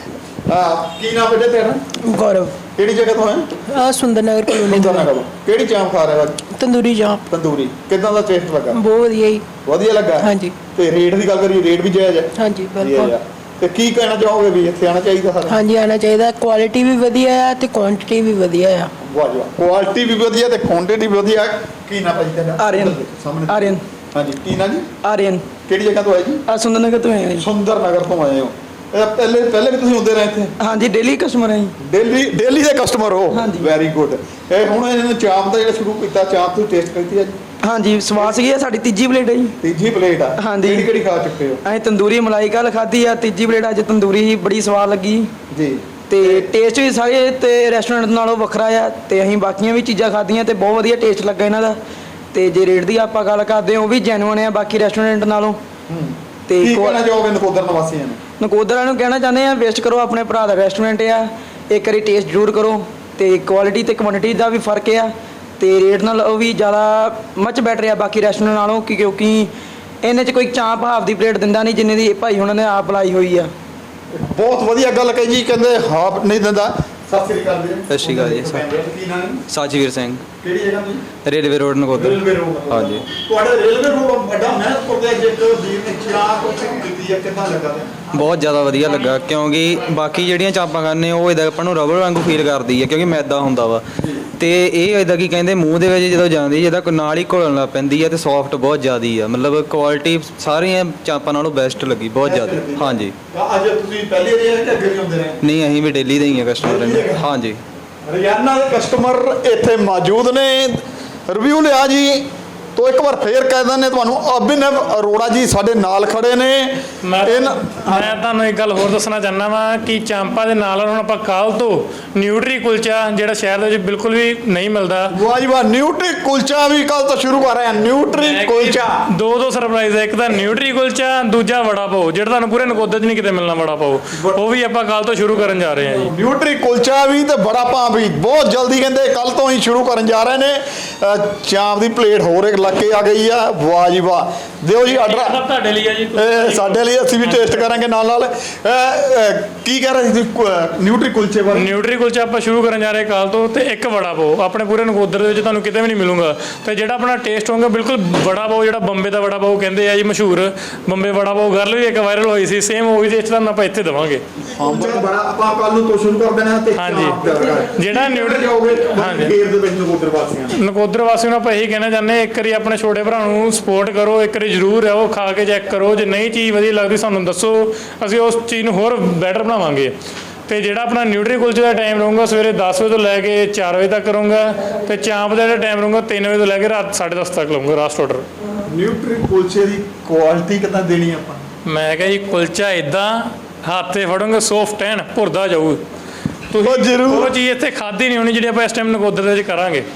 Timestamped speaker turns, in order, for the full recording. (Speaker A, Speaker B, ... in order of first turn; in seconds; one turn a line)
Speaker A: 0.5-1.8
Speaker B: 2.0-2.5
Speaker A: 2.8-3.6
Speaker B: 3.7-5.1
Speaker A: 4.6-6.4
Speaker B: 6.5-7.2
Speaker A: 7.3-8.8
Speaker B: 8.7-9.4
Speaker A: 9.6-15.6
Speaker B: 10.2-10.5
Speaker B: 12.4-13.1
Speaker B: 15.5-18.9
Speaker A: 19.0-24.9
Speaker C: 22.6-23.8
Speaker C: 25.0-25.5
Speaker A: 25.6-26.4
Speaker C: 26.5-27.5
Speaker A: 27.4-30.5
Speaker C: 30.6-31.7
Speaker A: 31.8-37.4
Speaker C: 33.3-33.7
Speaker C: 37.6-39.5
Speaker A: 39.6-41.6
Speaker C: 40.4-40.9
Speaker C: 41.6-45.3
Speaker A: 45.5-46.5
Speaker C: 46.1-51.8
Speaker C: 52.3-55.6
Speaker A: 55.9-58.2
Speaker C: 56.5-57.0
Speaker C: 58.4-69.5
Speaker C: 70.0-73.5
Speaker A: 74.1-79.4
Speaker D: 77.9-78.6
Speaker D: 79.5-80.2
Speaker A: 80.4-81.0
Speaker D: 81.2-83.0
Speaker A: 81.9-88.0
Speaker D: 88.1-93.8
Speaker A: 94.0-94.2
Speaker D: 94.4-103.1
Speaker A: 102.2-105.4
Speaker D: 105.4-107.6
Speaker A: 106.6-107.3
Speaker A: 108.0-118.1
Speaker E: 117.0-125.1
Speaker A: 125.1-129.0
Speaker E: 128.1-136.1
Speaker A: 134.1-134.4
Speaker A: 136.0-145.4
Speaker E: 144.9-147.7
Speaker A: 146.1-151.7
Speaker E: 151.5-164.2
Speaker A: 164.5-170.6
Speaker E: 166.8-169.3
Speaker E: 170.6-179.9
Speaker E: 180.5-188.3
Speaker A: 188.7-191.4
Speaker E: 191.7-195.8
Speaker E: 196.5-199.9
Speaker A: 196.6-197.3